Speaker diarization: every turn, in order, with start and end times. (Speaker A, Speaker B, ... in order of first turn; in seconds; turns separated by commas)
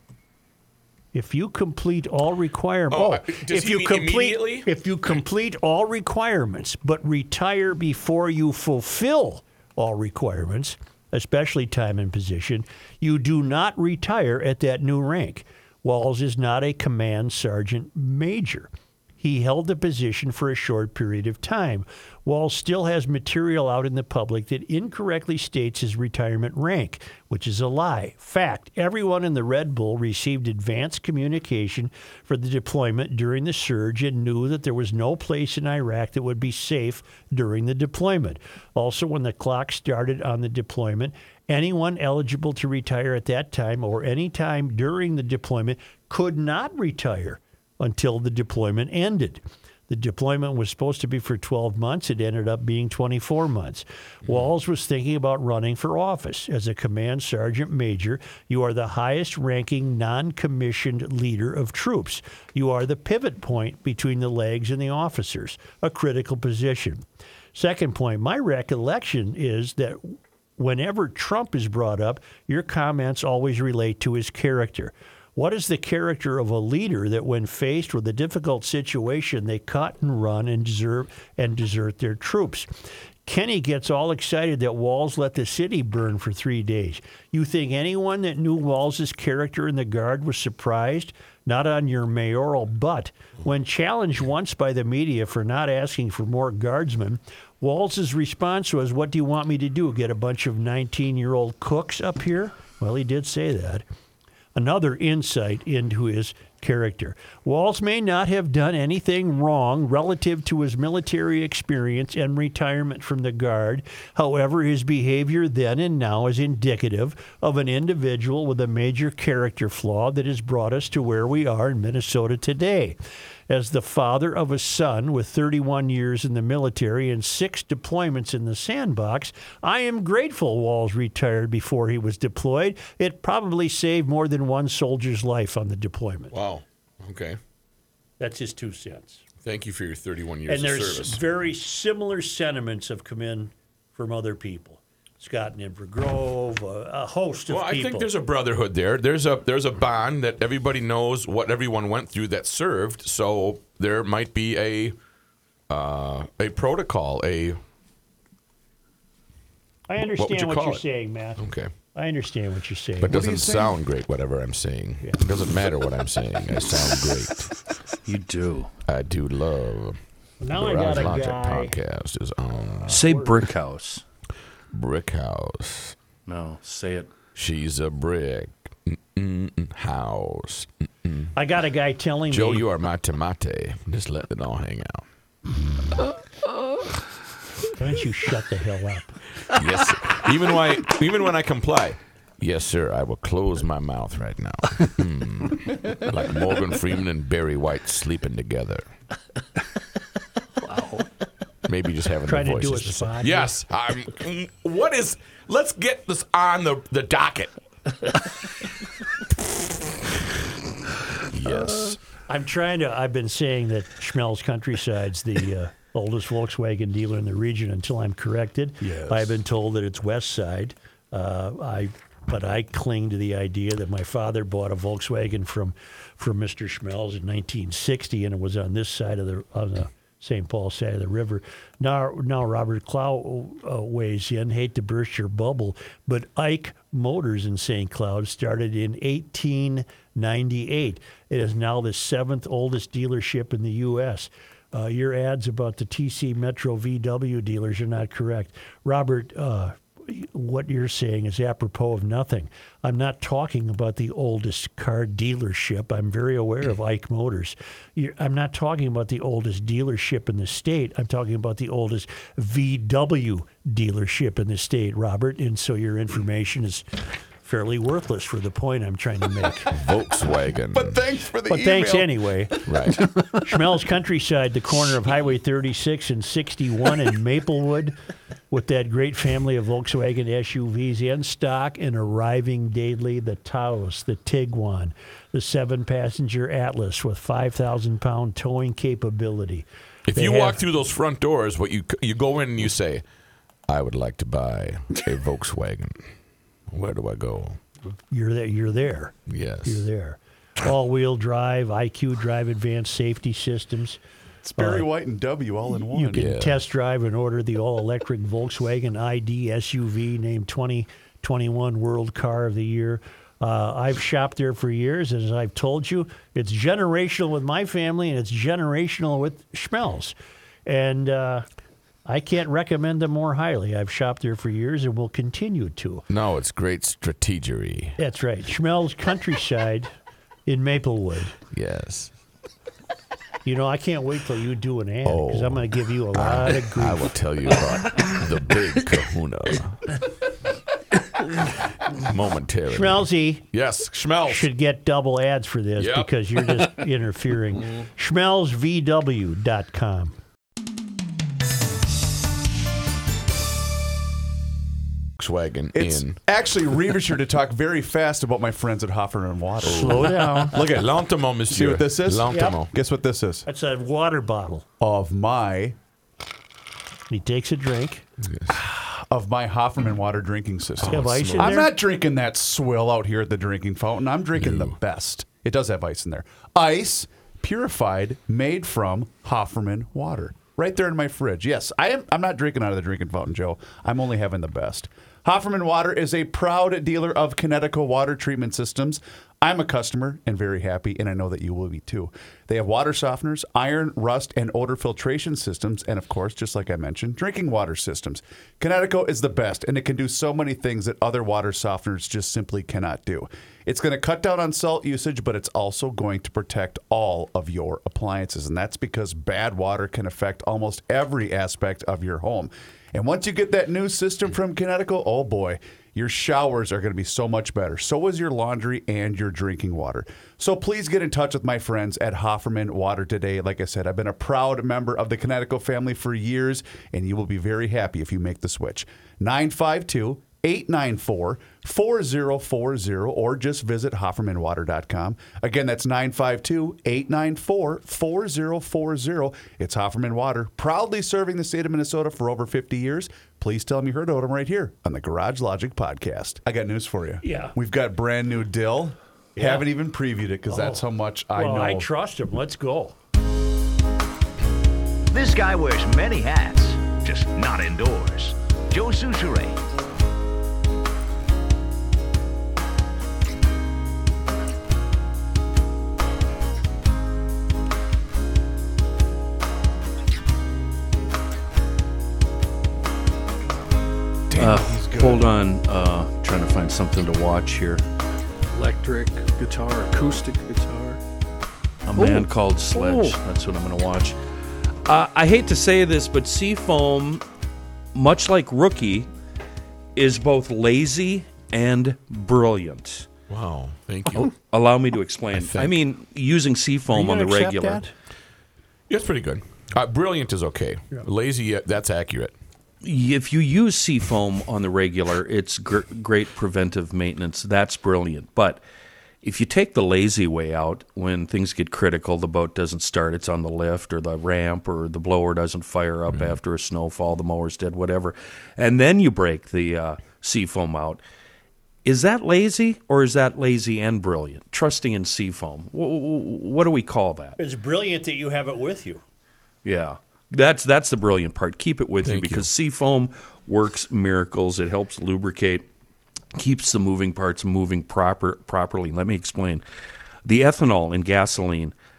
Speaker A: 1.1-67.0, Speaker B: 2.9-4.7, Speaker A: 67.5-82.7, Speaker A: 83.2-103.8, Speaker A: 104.5-123.0, Speaker A: 123.5-136.3, Speaker B: 136.3-137.4, Speaker A: 138.2-139.2, Speaker B: 139.4-141.2, Speaker A: 140.5-148.1, Speaker B: 147.5-154.9, Speaker B: 155.7-157.6, Speaker A: 159.9-161.4, Speaker B: 160.1-160.8, Speaker B: 161.4-161.7, Speaker A: 161.9-163.2, Speaker B: 163.0-167.5, Speaker C: 163.0-163.8, Speaker D: 168.0-168.7, Speaker B: 168.8-170.0, Speaker A: 170.4-171.7, Speaker B: 170.5-173.0, Speaker D: 172.9-174.0, Speaker A: 173.0-173.3, Speaker B: 174.7-175.9, Speaker D: 176.2-177.1, Speaker B: 177.3-181.3, Speaker A: 181.3-182.7, Speaker B: 182.3-185.0, Speaker A: 187.7-189.2, Speaker B: 189.5-198.9, Speaker E: 200.6-201.0, Speaker B: 201.7-207.5, Speaker A: 202.2-203.5, Speaker B: 211.3-212.0, Speaker A: 212.3-266.9, Speaker A: 267.4-269.7, Speaker B: 269.7-271.0, Speaker C: 270.7-272.3, Speaker A: 271.5-272.7, Speaker B: 272.6-273.1, Speaker E: 273.0-273.4, Speaker A: 273.4-277.9, Speaker A: 278.5-290.6, Speaker B: 290.1-293.0, Speaker B: 293.7-296.0, Speaker B: 296.7-297.6, Speaker A: 298.1-304.0, Speaker B: 299.3-299.9, Speaker C: 304.4-306.3, Speaker A: 304.6-304.9, Speaker A: 305.8-320.1, Speaker B: 306.1-306.6, Speaker A: 320.6-321.4, Speaker A: 322.1-326.1, Speaker B: 326.1-328.0, Speaker A: 328.0-329.9, Speaker A: 330.5-331.4, Speaker B: 331.5-332.1, Speaker A: 333.4-337.1, Speaker B: 335.0-340.1, Speaker B: 341.9-344.5, Speaker A: 342.7-343.5, Speaker A: 344.2-350.1, Speaker B: 345.8-346.6, Speaker B: 355.2-356.2, Speaker C: 355.7-360.8, Speaker A: 359.6-360.6, Speaker B: 359.6-362.7, Speaker C: 361.5-363.4, Speaker A: 362.3-362.6, Speaker A: 363.4-364.6, Speaker C: 364.8-365.8, Speaker A: 367.1-368.0, Speaker B: 368.2-368.6, Speaker C: 368.5-451.9, Speaker B: 370.8-371.6, Speaker A: 370.9-371.7, Speaker B: 374.4-374.8, Speaker A: 447.2-447.5, Speaker A: 449.4-449.7, Speaker A: 450.5-452.9, Speaker F: 455.1-459.6, Speaker C: 474.3-475.3, Speaker D: 474.3-477.8, Speaker E: 478.5-481.0, Speaker D: 481.9-484.2, Speaker E: 481.9-483.2, Speaker D: 484.8-487.2, Speaker D: 487.9-489.1, Speaker D: 489.9-493.1, Speaker B: 493.3-494.3, Speaker D: 494.3-497.8, Speaker B: 495.3-495.8, Speaker A: 496.9-497.9, Speaker B: 498.9-502.3, Speaker D: 502.8-508.6, Speaker D: 509.2-521.0, Speaker B: 516.1-516.4, Speaker D: 521.8-527.4, Speaker A: 527.4-529.0, Speaker D: 529.6-535.6, Speaker B: 532.0-532.5, Speaker D: 536.3-539.6, Speaker D: 540.2-541.7